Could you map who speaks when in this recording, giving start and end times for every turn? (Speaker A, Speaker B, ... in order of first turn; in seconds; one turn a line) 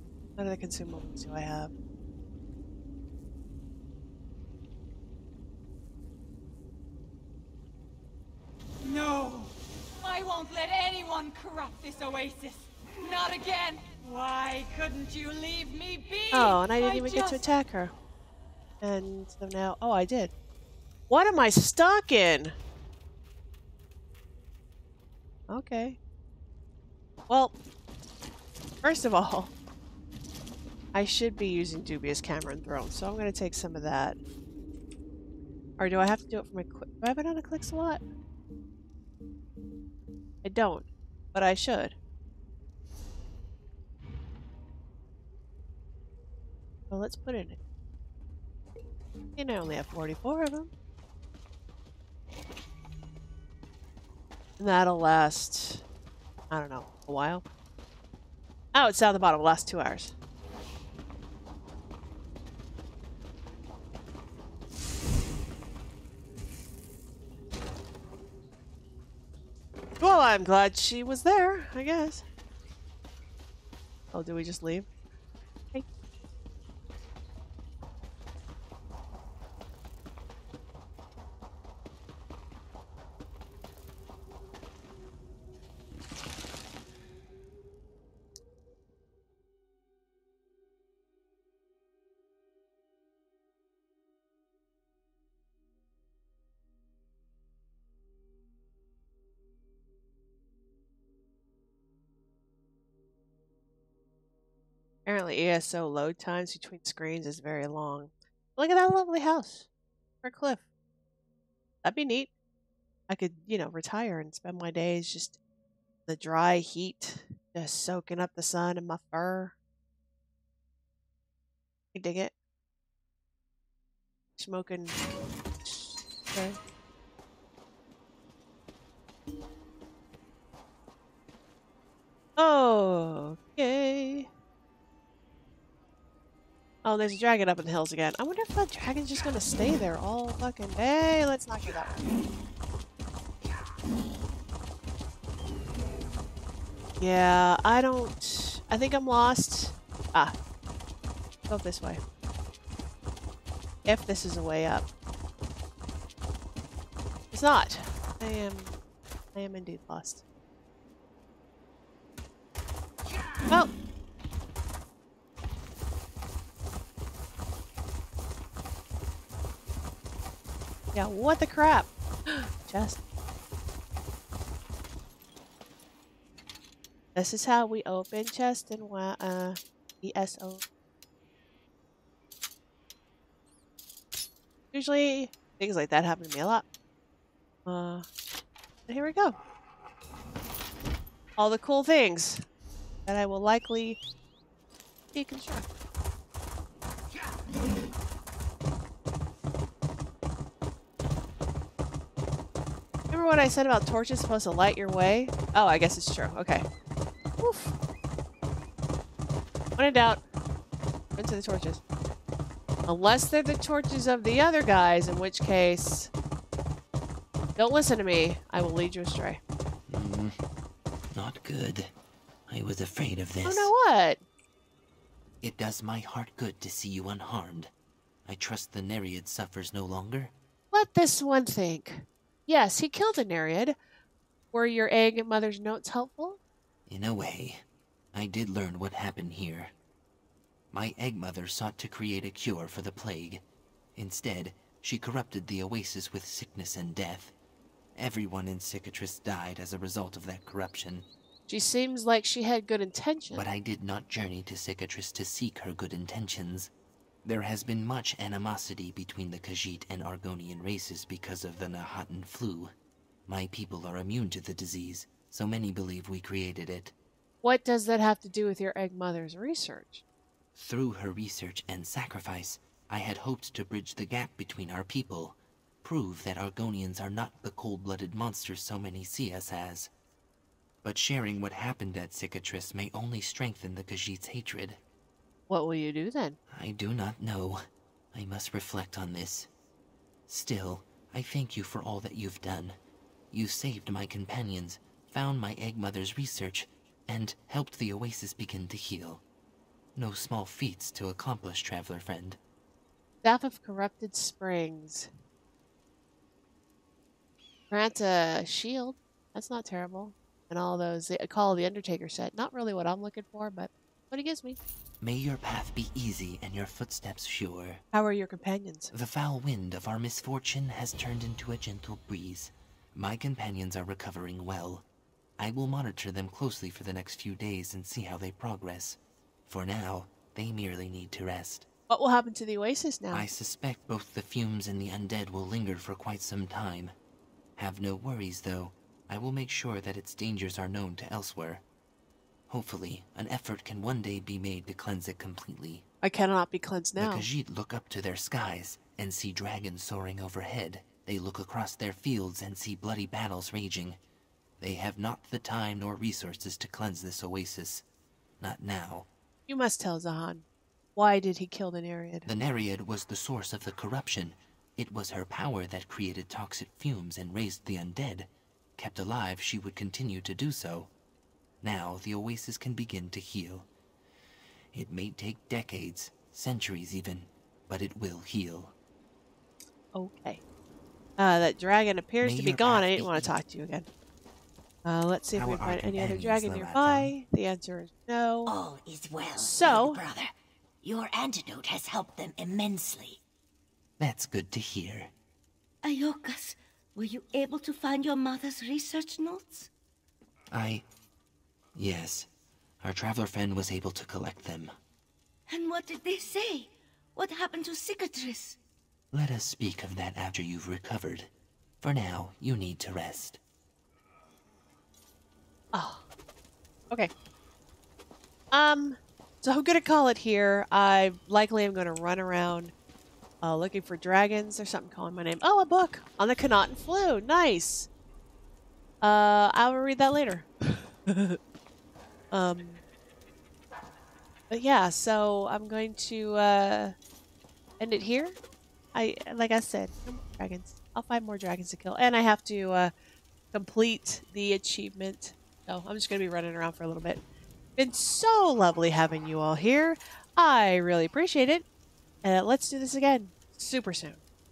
Speaker A: 0.4-1.7
Speaker B: 8.8-17.4
Speaker A: 16.3-17.9
Speaker A: 18.8-20.3
Speaker A: 21.1-22.6
Speaker A: 25.5-26.0
Speaker A: 27.3-27.5
Speaker A: 28.8-29.5
Speaker A: 30.9-34.2
Speaker A: 35.8-38.0
Speaker A: 40.4-41.9
Speaker A: 46.9-47.6
Speaker A: 49.4-50.7
Speaker A: 54.6-55.8
Speaker A: 56.5-57.4
Speaker A: 58.7-60.1
Speaker A: 70.0-72.2
Speaker A: 74.1-74.9
Speaker A: 105.1-109.7
Speaker A: 110.2-110.6
Speaker A: 111.8-112.3
Speaker A: 113.1-115.4
Speaker A: 116.1-119.5
Speaker A: 121.9-122.3
Speaker A: 124.4-125.0
Speaker A: 125.7-126.6
Speaker A: 132.4-134.3
Speaker A: 136.8-142.0
Speaker A: 147.0-150.3
Speaker A: 151.5-152.0
Speaker A: 153.9-154.9
Speaker A: 157.3-158.8
Speaker A: 159.3-160.2
Speaker A: 170.9-173.0
Speaker A: 177.2-180.6
Speaker A: 184.7-186.7
Speaker A: 187.7-188.1
Speaker A: 188.9-189.4
Speaker A: 191.4-192.4
Speaker A: 193.1-194.0
Speaker A: 195.1-195.7
Speaker A: 203.1-206.7
Speaker A: 207.4-207.8
Speaker A: 209.8-210.2
Speaker A: 211.2-211.8
Speaker A: 212.9-216.1
Speaker A: 217.6-219.4
Speaker C: 219.9-220.3
Speaker C: 221.1-221.9
Speaker C: 222.5-223.7
Speaker A: 223.4-224.2
Speaker C: 225.4-227.7
Speaker C: 228.3-230.3
Speaker A: 230.7-233.8
Speaker A: 234.5-236.4
Speaker C: 236.9-239.7
Speaker C: 240.7-243.4
Speaker C: 244.0-247.3
Speaker C: 247.9-251.1
Speaker A: 251.5-253.4
Speaker C: 253.3-256.7
Speaker C: 257.2-262.7
Speaker C: 263.3-266.9
Speaker A: 267.4-270.0
Speaker C: 270.6-279.9
Speaker C: 280.8-284.8
Speaker A: 285.5-286.4
Speaker C: 286.5-289.5
Speaker C: 290.3-292.8
Speaker C: 293.3-299.2
Speaker C: 299.9-302.4
Speaker A: 303.2-305.1
Speaker A: 307.7-314.6
Speaker C: 315.0-317.8
Speaker A: 317.9-318.9
Speaker C: 318.9-324.9
Speaker C: 325.4-331.7
Speaker A: 331.9-333.3
Speaker C: 333.1-336.9
Speaker C: 337.6-341.6
Speaker C: 342.5-345.9
Speaker A: 346.0-347.3
Speaker C: 347.0-354.0
Speaker C: 354.6-357.9
Speaker C: 358.4-359.1
Speaker A: 359.5-362.3
Speaker C: 362.3-370.9
Speaker C: 371.6-373.7
Speaker C: 374.7-378.7
Speaker A: 379.9-380.4
Speaker A: 381.2-383.9
Speaker C: 382.2-383.3
Speaker A: 384.9-388.5
Speaker C: 385.3-387.1
Speaker D: 388.5-390.3
Speaker A: 389.4-390.0
Speaker D: 390.8-393.2
Speaker C: 394.0-395.1
Speaker E: 395.8-399.7
Speaker C: 400.5-400.9
Speaker C: 401.8-402.3
Speaker C: 402.8-404.7
Speaker E: 405.5-408.6
Speaker C: 409.1-413.4
Speaker A: 415.7-416.1
Speaker A: 418.5-422.7
Speaker A: 423.4-427.9
Speaker A: 429.0-431.4
Speaker A: 432.3-432.8
Speaker A: 434.5-436.9
Speaker A: 437.8-438.4
Speaker A: 438.9-442.9
Speaker A: 443.5-447.2
Speaker A: 447.8-451.6
Speaker A: 452.2-454.2